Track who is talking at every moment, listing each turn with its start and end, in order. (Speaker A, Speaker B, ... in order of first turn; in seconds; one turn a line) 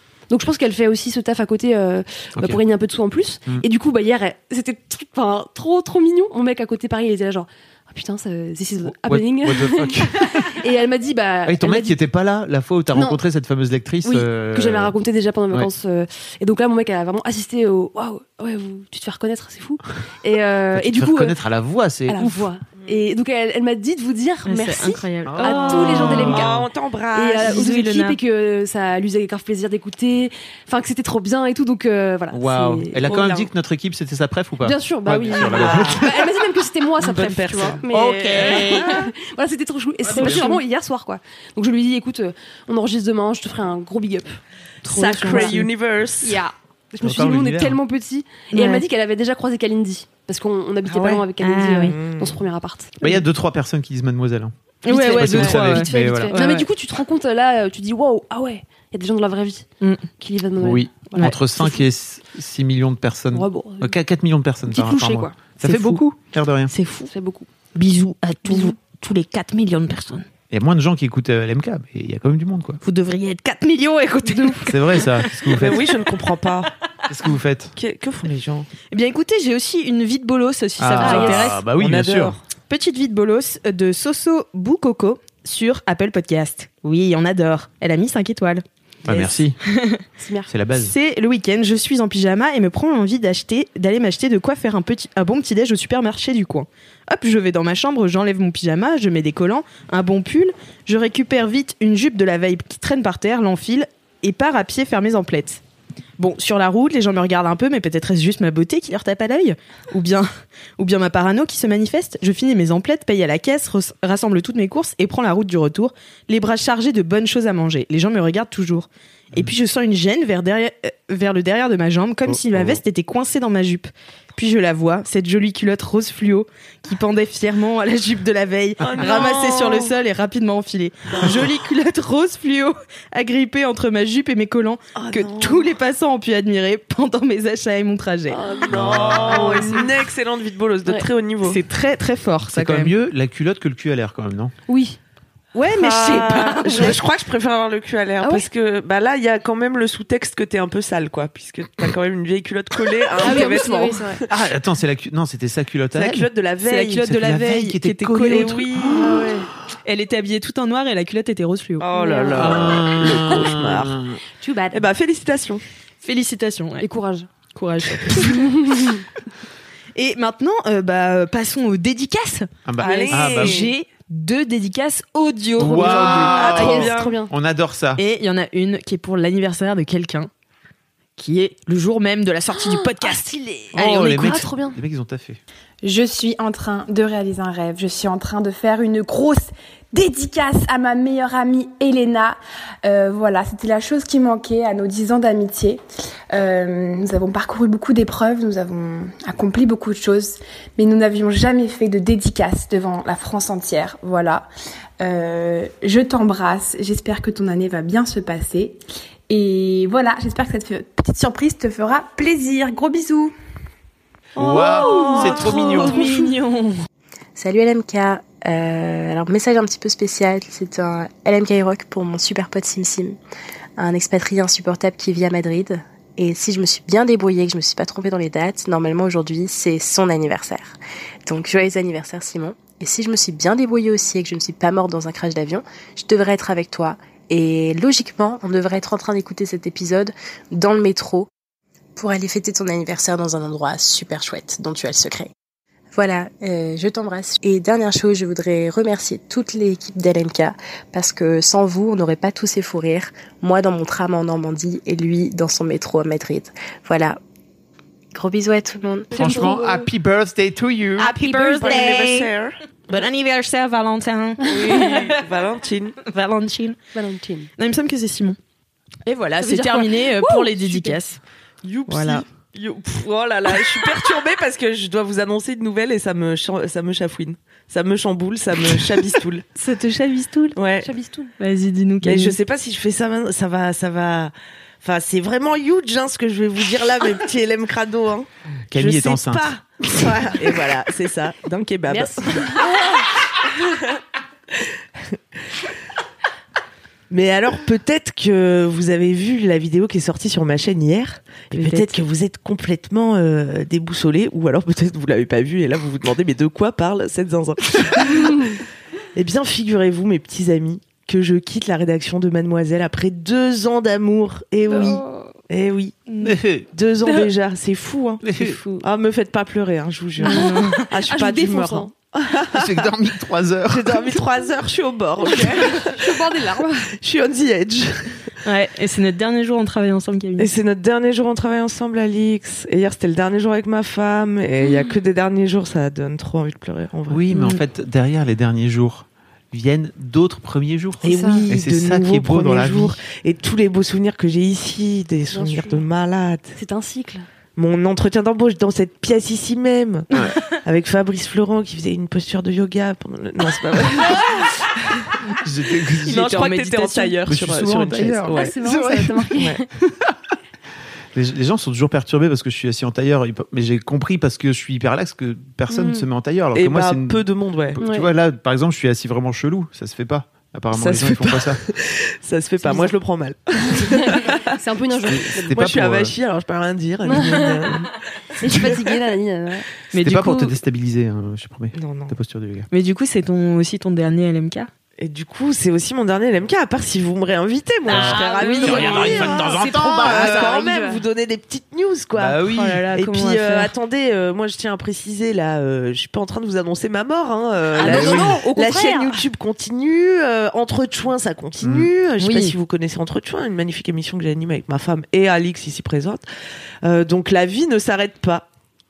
Speaker A: 0.3-12.0
Speaker B: 8.9-10.5
Speaker B: 11.5-14.9
Speaker A: 12.9-13.2
Speaker A: 14.0-21.4
Speaker B: 20.7-22.4
Speaker A: 22.1-26.6
Speaker C: 22.8-23.1
Speaker D: 24.4-26.3
Speaker B: 25.2-26.6
Speaker C: 25.8-27.7
Speaker A: 27.1-33.1
Speaker D: 27.3-28.2
Speaker B: 32.3-36.2
Speaker C: 33.0-33.5
Speaker A: 34.6-44.4
Speaker C: 35.5-36.0
Speaker C: 37.0-39.1
Speaker B: 37.9-38.9
Speaker B: 40.1-40.5
Speaker D: 44.9-45.7
Speaker C: 44.9-46.4
Speaker A: 46.2-53.0
Speaker B: 47.0-47.8
Speaker D: 48.5-48.9
Speaker B: 50.9-51.2
Speaker D: 51.4-52.0
Speaker C: 51.9-52.4
Speaker B: 53.0-56.4
Speaker D: 54.9-56.7
Speaker A: 54.9-59.7
Speaker A: 60.2-61.9
Speaker B: 60.6-66.7
Speaker A: 63.3-64.0
Speaker A: 64.7-65.4
Speaker D: 65.6-66.0
Speaker D: 66.7-67.1
Speaker A: 67.1-67.5
Speaker D: 67.8-70.3
Speaker B: 70.5-72.8
Speaker D: 72.8-75.8
Speaker A: 74.2-74.6
Speaker B: 74.7-75.8
Speaker C: 75.6-76.7
Speaker B: 77.1-77.7
Speaker C: 77.8-78.7
Speaker D: 78.9-81.6
Speaker B: 80.8-82.4
Speaker A: 81.0-81.4
Speaker C: 81.0-82.4
Speaker D: 82.7-90.1
Speaker B: 89.0-89.6
Speaker A: 90.2-90.5
Speaker B: 90.5-90.9
Speaker D: 90.7-105.6
Speaker D: 106.2-138.4
Speaker B: 122.3-122.8
Speaker C: 128.8-129.9
Speaker C: 131.1-131.4
Speaker C: 134.9-135.7
Speaker A: 138.4-138.7
Speaker C: 138.4-141.6
Speaker B: 138.7-139.8
Speaker A: 139.2-139.9
Speaker D: 141.4-142.9
Speaker B: 142.5-144.5
Speaker A: 144.7-145.0
Speaker D: 145.6-147.0
Speaker C: 145.7-154.3
Speaker A: 148.2-148.5
Speaker A: 153.2-154.2
Speaker B: 154.3-156.3
Speaker C: 156.0-157.0
Speaker D: 156.6-158.7
Speaker B: 157.0-159.3
Speaker C: 158.2-159.4
Speaker A: 159.0-159.5
Speaker D: 159.8-161.9
Speaker C: 161.8-164.0
Speaker A: 161.9-162.7
Speaker B: 162.3-164.2
Speaker A: 164.4-164.7
Speaker C: 164.7-165.6
Speaker D: 166.0-166.9
Speaker A: 166.8-167.3
Speaker D: 167.5-168.5
Speaker A: 168.2-169.0
Speaker D: 170.0-172.5
Speaker B: 172.7-173.6
Speaker C: 172.8-173.7
Speaker D: 173.1-176.4
Speaker B: 175.6-178.0
Speaker C: 175.7-177.2
Speaker A: 176.3-177.3
Speaker D: 178.0-180.3
Speaker D: 181.2-184.5
Speaker A: 183.7-184.8
Speaker B: 183.7-185.4
Speaker E: 185.8-195.8
Speaker E: 196.3-204.5
Speaker E: 205.0-213.3
Speaker B: 214.4-216.0
Speaker D: 214.4-216.8
Speaker C: 214.5-216.0
Speaker F: 217.3-223.2
Speaker F: 223.8-241.3
Speaker F: 242.0-245.3
Speaker F: 245.9-257.2
Speaker F: 258.1-259.5
Speaker A: 259.1-259.9
Speaker B: 259.1-261.1
Speaker D: 261.0-262.3
Speaker C: 261.2-262.6
Speaker D: 262.9-265.0
Speaker C: 264.4-266.0
Speaker D: 266.0-266.8
Speaker A: 266.9-267.5
Speaker D: 267.6-268.4
Speaker D: 269.1-271.2
Speaker A: 269.4-270.9
Speaker C: 271.6-279.5
Speaker D: 271.9-272.2
Speaker D: 279.6-280.6
Speaker C: 280.6-280.9
Speaker A: 280.8-281.3
Speaker D: 281.4-282.4
Speaker C: 282.0-293.0
Speaker B: 288.7-290.4
Speaker A: 291.9-292.9
Speaker C: 293.6-294.0
Speaker C: 297.1-308.6
Speaker D: 301.5-302.0
Speaker C: 309.1-316.0
Speaker A: 314.7-315.3
Speaker D: 316.1-316.4
Speaker B: 316.2-316.7
Speaker C: 316.7-322.9
Speaker B: 318.2-318.6
Speaker D: 318.4-318.9
Speaker D: 320.2-320.9
Speaker A: 320.2-321.9
Speaker B: 322.5-324.2
Speaker C: 323.7-326.3
Speaker A: 325.2-326.9
Speaker C: 327.0-328.3
Speaker D: 328.4-330.5
Speaker C: 330.4-337.2
Speaker B: 337.1-343.0
Speaker D: 337.3-337.6
Speaker C: 341.0-346.6
Speaker A: 341.0-341.5
Speaker A: 345.3-345.9
Speaker A: 346.6-347.2
Speaker C: 347.6-355.3
Speaker B: 355.4-356.3
Speaker C: 356.0-358.6
Speaker D: 356.1-357.3
Speaker B: 357.3-359.3
Speaker A: 358.3-359.6
Speaker B: 361.1-371.6
Speaker A: 365.7-366.1
Speaker C: 366.6-367.8
Speaker A: 367.8-368.1
Speaker C: 370.7-374.5
Speaker A: 372.6-372.9
Speaker A: 373.7-375.6
Speaker B: 375.1-376.1
Speaker C: 375.4-377.9
Speaker A: 377.1-377.7
Speaker A: 378.4-379.6
Speaker C: 378.5-378.8
Speaker D: 379.9-380.5
Speaker B: 379.9-382.7
Speaker C: 381.8-382.2
Speaker D: 382.7-384.7
Speaker C: 385.0-406.2
Speaker B: 387.9-390.6
Speaker D: 387.9-389.4
Speaker A: 389.6-391.0
Speaker B: 392.2-392.8
Speaker D: 392.4-393.7
Speaker A: 397.8-399.1
Speaker B: 397.8-398.4
Speaker B: 401.6-401.9
Speaker D: 402.2-402.6
Speaker C: 406.8-408.5